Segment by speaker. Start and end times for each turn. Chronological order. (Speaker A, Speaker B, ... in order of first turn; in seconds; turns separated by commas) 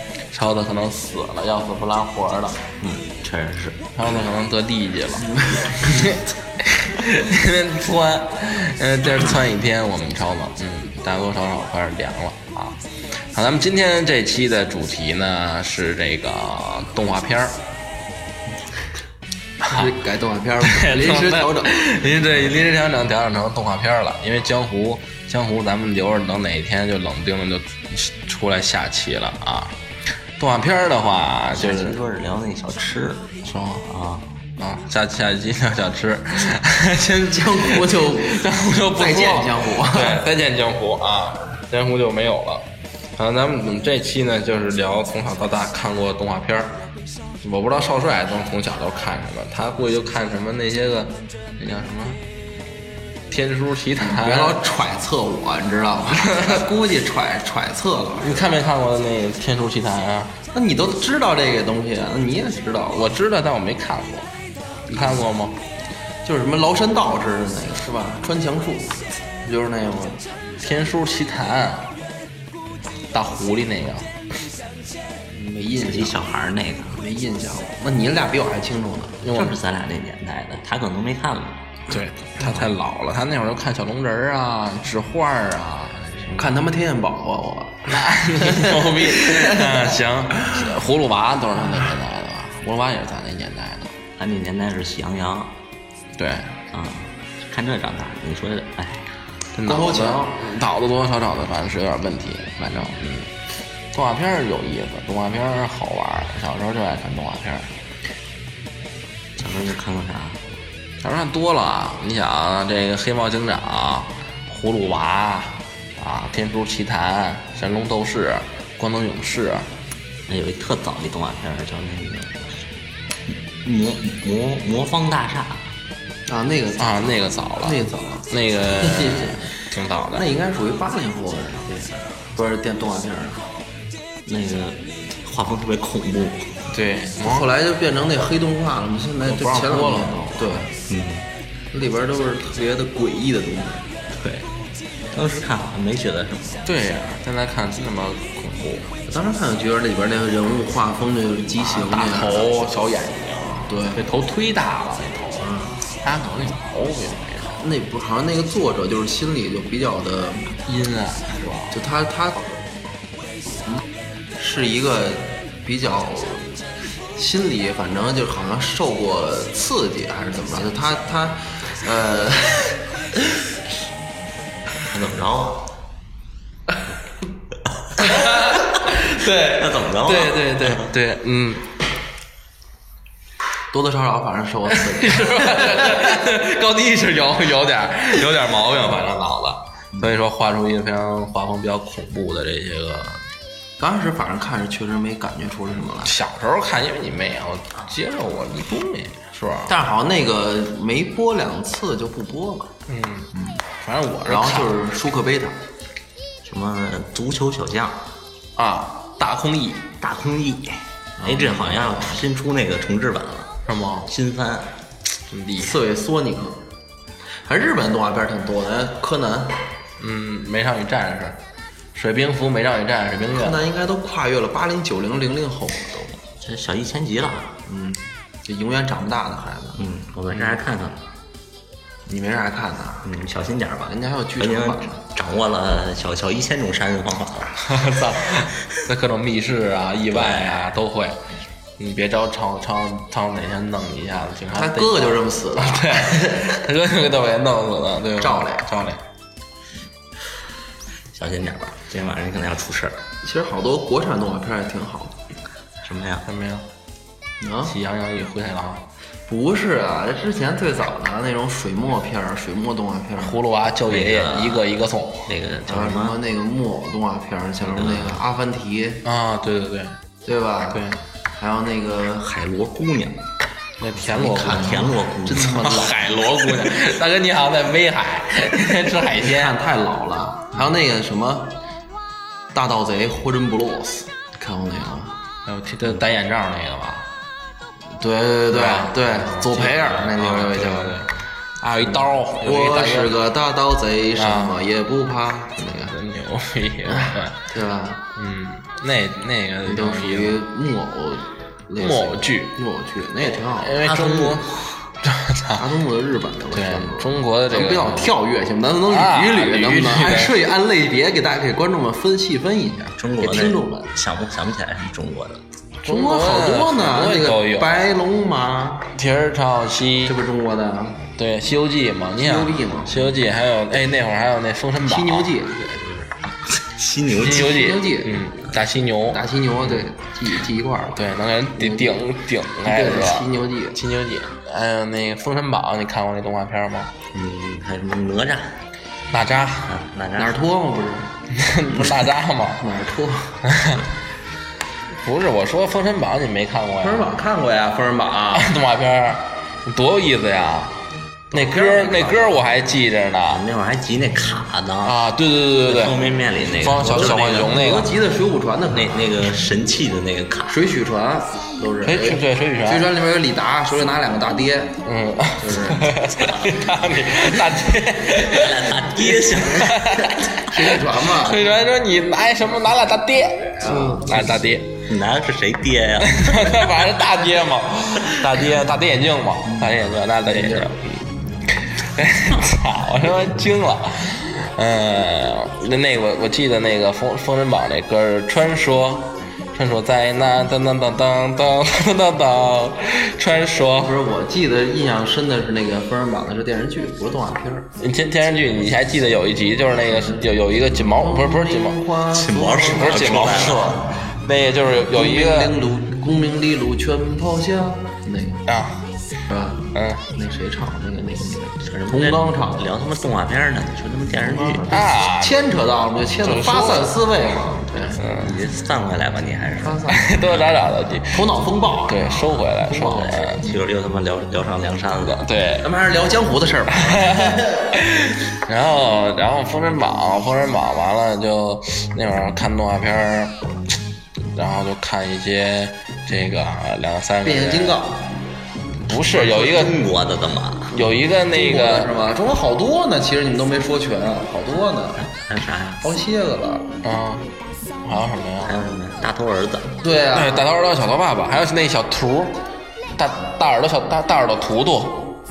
Speaker A: 0.3-2.6, Speaker B: 2.8-3.8, Speaker A: 4.0-12.8, Speaker C: 5.3-6.2, Speaker A: 13.3-17.6, Speaker A: 19.6-19.9, Speaker C: 19.7-21.7, Speaker A: 20.6-29.7, Speaker A: 30.4-32.0, Speaker B: 31.5-33.3, Speaker A: 33.4-33.9, Speaker B: 33.8-34.3, Speaker A: 34.6-42.6, Speaker C: 37.3-40.2, Speaker A: 43.2-46.8, Speaker A: 47.4-52.2, Speaker A: 53.3-54.6, Speaker C: 54.0-58.4, Speaker A: 56.2-56.6, Speaker A: 58.2-60.3, Speaker C: 60.5-63.1, Speaker A: 62.9-64.3, Speaker C: 64.9-65.2, Speaker A: 64.9-65.5, Speaker C: 66.2-70.2, Speaker A: 70.6-71.9, Speaker A: 73.1-74.1, Speaker C: 75.3-76.2, Speaker B: 75.8-77.0, Speaker C: 76.9-79.2, Speaker A: 79.2-79.5, Speaker B: 79.3-81.7, Speaker A: 81.9-86.5, Speaker C: 86.3-90.0, Speaker A: 87.9-93.9, Speaker B: 94.2-95.5, Speaker A: 96.2-96.5, Speaker B: 96.7-99.1, Speaker A: 99.5-103.3, Speaker C: 99.7-100.4, Speaker A: 103.9-107.7, Speaker B: 109.4-110.5, Speaker A: 111.0-119.7, Speaker B: 120.3-122.6, Speaker B: 123.3-125.7, Speaker C: 126.3-129.5, Speaker A: 126.8-130.2, Speaker C: 130.1-133.5, Speaker B: 134.2-136.6, Speaker A: 136.7-137.4, Speaker C: 137.2-140.7, Speaker A: 139.2-140.6, Speaker B: 140.9-141.3, Speaker C: 141.7-143.9, Speaker B: 144.2-144.4, Speaker B: 145.1-146.7, Speaker A: 146.7-148.9, Speaker C: 149.1-152.5, Speaker A: 151.6-155.5, Speaker C: 153.7-154.0, Speaker C: 155.4-155.8, Speaker A: 156.0-157.6, Speaker C: 157.6-160.5, Speaker A: 160.7-161.8, Speaker C: 161.7-162.5, Speaker C: 164.4-166.6, Speaker C: 167.2-172.8, Speaker B: 174.9-175.7, Speaker A: 178.0-181.7, Speaker B: 179.4-180.9, Speaker C: 183.7-186.1, Speaker A: 184.7-193.2, Speaker C: 193.8-196.1, Speaker A: 196.0-199.7, Speaker C: 199.7-202.7, Speaker A: 202.9-204.7, Speaker C: 203.3-203.6, Speaker C: 204.2-205.6, Speaker B: 206.4-208.0, Speaker A: 208.6-209.9, Speaker B: 210.0-213.5, Speaker C: 211.2-212.2, Speaker A: 213.7-214.1, Speaker B: 214.1-214.7, Speaker A: 215.3-215.7, Speaker C: 215.6-216.6, Speaker C: 217.4-219.6, Speaker A: 220.0-221.4, Speaker A: 221.9-223.6, Speaker C: 223.3-226.2, Speaker B: 226.4-227.6, Speaker C: 227.7-229.8, Speaker B: 229.8-231.0, Speaker C: 232.1-233.1, Speaker B: 233.0-237.7, Speaker C: 233.9-234.9, Speaker A: 237.6-241.2, Speaker B: 240.1-240.6, Speaker A: 241.8-249.0, Speaker C: 244.5-246.6, Speaker C: 248.2-248.7, Speaker B: 251.1-253.0, Speaker C: 253.2-255.2, Speaker B: 255.8-256.3, Speaker A: 256.2-256.6, Speaker C: 257.4-257.7, Speaker A: 257.7-258.8, Speaker C: 259.3-263.4, Speaker A: 263.2-265.3, Speaker B: 263.9-264.7, Speaker B: 265.3-266.2, Speaker C: 265.7-269.0, Speaker B: 267.6-268.2, Speaker A: 269.0-269.9, Speaker C: 270.2-270.8, Speaker A: 270.7-271.0, Speaker C: 271.4-272.3, Speaker B: 272.2-273.2, Speaker A: 273.8-279.5, Speaker C: 274.1-276.7, Speaker B: 274.2-275.7, Speaker C: 279.2-281.5, Speaker C: 282.5-285.1, Speaker A: 285.4-287.1, Speaker C: 288.0-291.0, Speaker A: 288.5-291.1, Speaker A: 291.6-293.1, Speaker C: 291.8-295.9, Speaker A: 294.1-294.6, Speaker A: 295.9-297.4, Speaker C: 296.9-298.0, Speaker A: 298.1-300.4, Speaker C: 299.6-304.3, Speaker A: 301.8-302.6, Speaker A: 303.2-305.6, Speaker C: 305.5-313.9, Speaker A: 306.5-308.1, Speaker A: 308.9-310.3, Speaker B: 312.9-315.4, Speaker A: 315.8-317.8, Speaker C: 315.8-318.9, Speaker A: 318.9-320.1, Speaker C: 320.0-321.0, Speaker A: 321.1-325.3, Speaker C: 322.2-323.1, Speaker C: 324.8-326.0, Speaker B: 326.4-327.6, Speaker A: 327.1-329.2, Speaker C: 327.2-328.3, Speaker C: 329.1-332.0, Speaker A: 330.9-336.9, Speaker C: 332.6-333.8, Speaker B: 337.1-338.6, Speaker A: 339.1-339.7, Speaker B: 339.6-340.5, Speaker C: 340.2-341.1, Speaker A: 341.3-342.6, Speaker C: 342.6-343.4, Speaker A: 343.4-343.8, Speaker A: 345.0-347.1, Speaker C: 346.8-348.6, Speaker A: 348.3-350.8, Speaker C: 351.3-352.4, Speaker A: 351.3-353.4, Speaker B: 353.3-355.0, Speaker A: 354.8-355.9, Speaker B: 355.6-357.6, Speaker A: 356.6-357.9, Speaker C: 356.8-359.2, Speaker B: 358.7-360.6, Speaker C: 360.5-364.8, Speaker A: 361.8-362.8, Speaker A: 364.8-368.8, Speaker C: 365.4-366.5, Speaker B: 368.1-369.8, Speaker C: 369.1-371.5, Speaker A: 369.5-374.8, Speaker C: 373.6-374.3, Speaker B: 374.9-376.6, Speaker A: 376.0-393.9, Speaker C: 379.5-380.8, Speaker C: 393.8-397.7, Speaker A: 397.8-401.8, Speaker C: 399.9-403.8, Speaker B: 402.1-403.9, Speaker A: 402.7-405.6, Speaker C: 404.9-408.4, Speaker A: 408.5-408.8, Speaker C: 409.3-412.7, Speaker A: 409.7-410.0, Speaker B: 411.6-414.8, Speaker C: 414.1-418.0, Speaker A: 414.7-415.4, Speaker A: 416.2-416.9, Speaker A: 418.0-418.3, Speaker B: 418.0-420.5, Speaker C: 419.6-420.2, Speaker A: 419.9-421.2, Speaker C: 421.1-423.6, Speaker A: 421.9-423.4, Speaker B: 422.7-425.2, Speaker A: 425.1-425.7, Speaker C: 425.6-427.7, Speaker A: 426.7-433.4, Speaker A: 434.3-437.8, Speaker C: 437.2-438.1, Speaker A: 438.8-439.8, Speaker B: 439.1-440.8, Speaker A: 440.7-441.9, Speaker C: 441.3-445.0, Speaker B: 445.0-445.8, Speaker C: 445.8-446.7, Speaker A: 446.8-447.3, Speaker A: 447.8-448.6, Speaker B: 448.4-449.8, Speaker C: 449.8-450.5, Speaker A: 450.1-452.4, Speaker A: 452.9-455.2